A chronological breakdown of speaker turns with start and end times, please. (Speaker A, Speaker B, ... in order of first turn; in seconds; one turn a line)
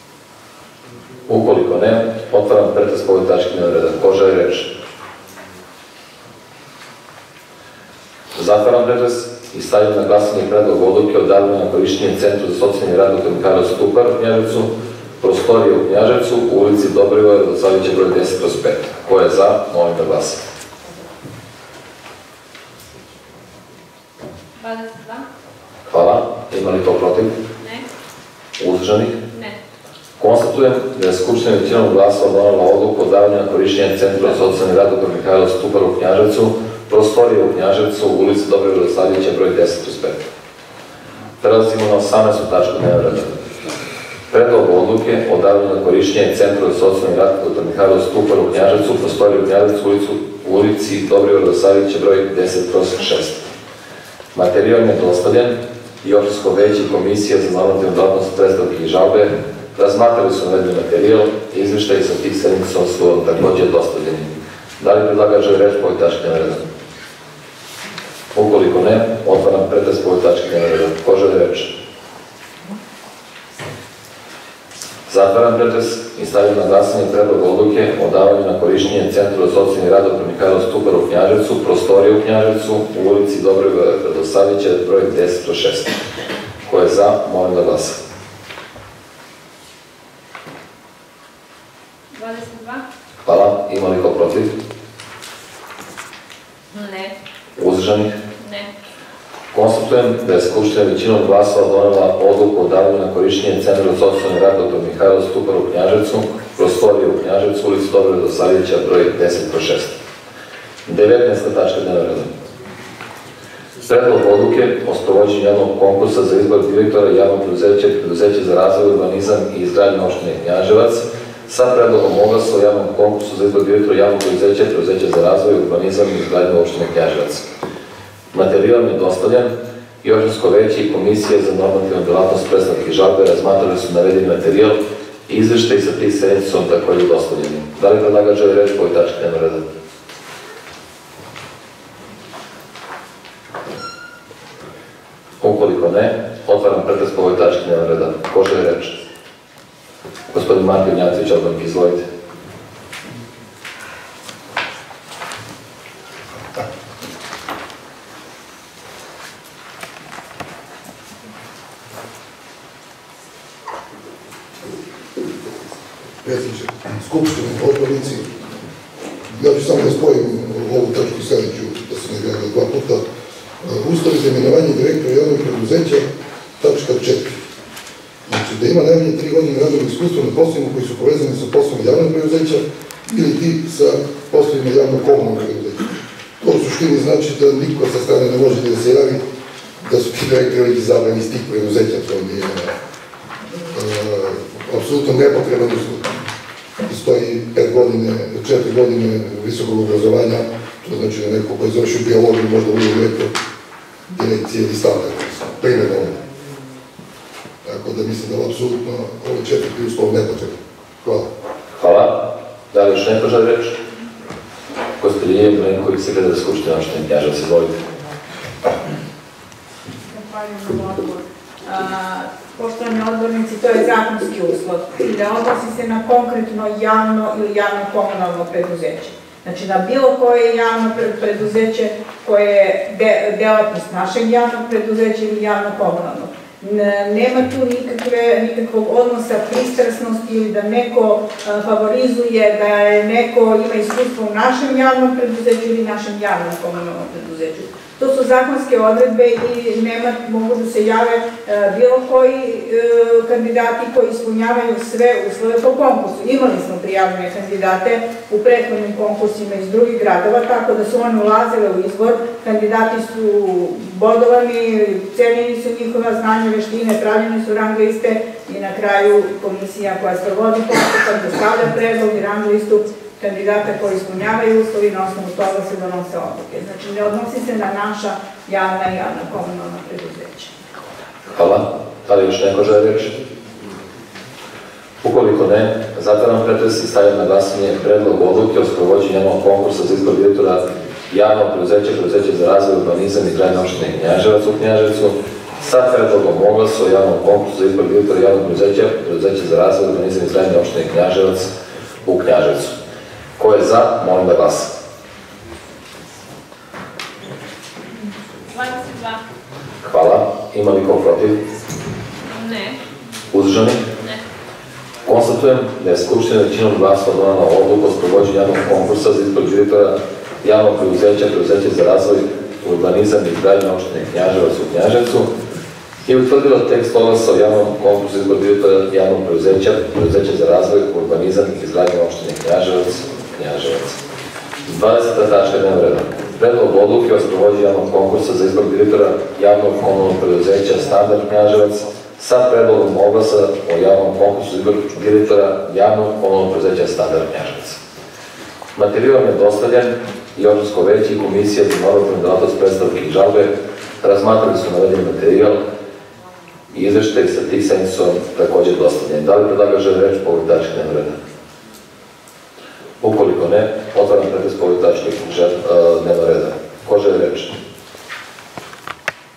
Speaker A: 1.3-4.7
Speaker A: 8.3-20.4
Speaker B: 24.6-25.2
Speaker A: 25.9-27.4
Speaker A: 28.6-29.2
Speaker A: 30.2-40.3
Speaker A: 41.4-43.4
Speaker A: 44.3-53.5
Speaker A: 54.3-66.7
Speaker A: 68.3-71.8
Speaker A: 75.1-86.0
Speaker A: 86.7-88.0
Speaker B: 92.1-92.8
Speaker A: 93.2-94.5
Speaker B: 96.7-97.1
Speaker A: 97.5-98.2
Speaker B: 98.4-98.7
Speaker A: 99.5-110.0
Speaker A: 110.8-112.3
Speaker A: 113.8-127.4
Speaker A: 128.3-139.6
Speaker A: 145.4-149.0
Speaker A: 150.3-152.0
Speaker C: 166.2-168.4
Speaker C: 169.3-173.0
Speaker C: 173.6-177.4
Speaker C: 178.3-189.2
Speaker C: 189.8-192.7
Speaker C: 193.7-196.2
Speaker C: 196.8-203.3
Speaker C: 204.1-206.2
Speaker C: 207.6-211.3
Speaker A: 211.8-213.8
Speaker A: 215.0-217.8
Speaker D: 220.1-280.5
Speaker A: 281.3-283.2
Speaker A: 285.0-301.5
Speaker A: 302.0-302.8
Speaker A: 303.4-304.7
Speaker B: 308.5-309.2
Speaker A: 309.8-311.4
Speaker B: 312.3-312.8
Speaker A: 313.3-313.8
Speaker A: 315.0-325.3
Speaker A: 326.0-334.0
Speaker A: 334.6-347.8
Speaker A: 348.7-355.6
Speaker A: 356.7-361.2
Speaker A: 363.0-367.6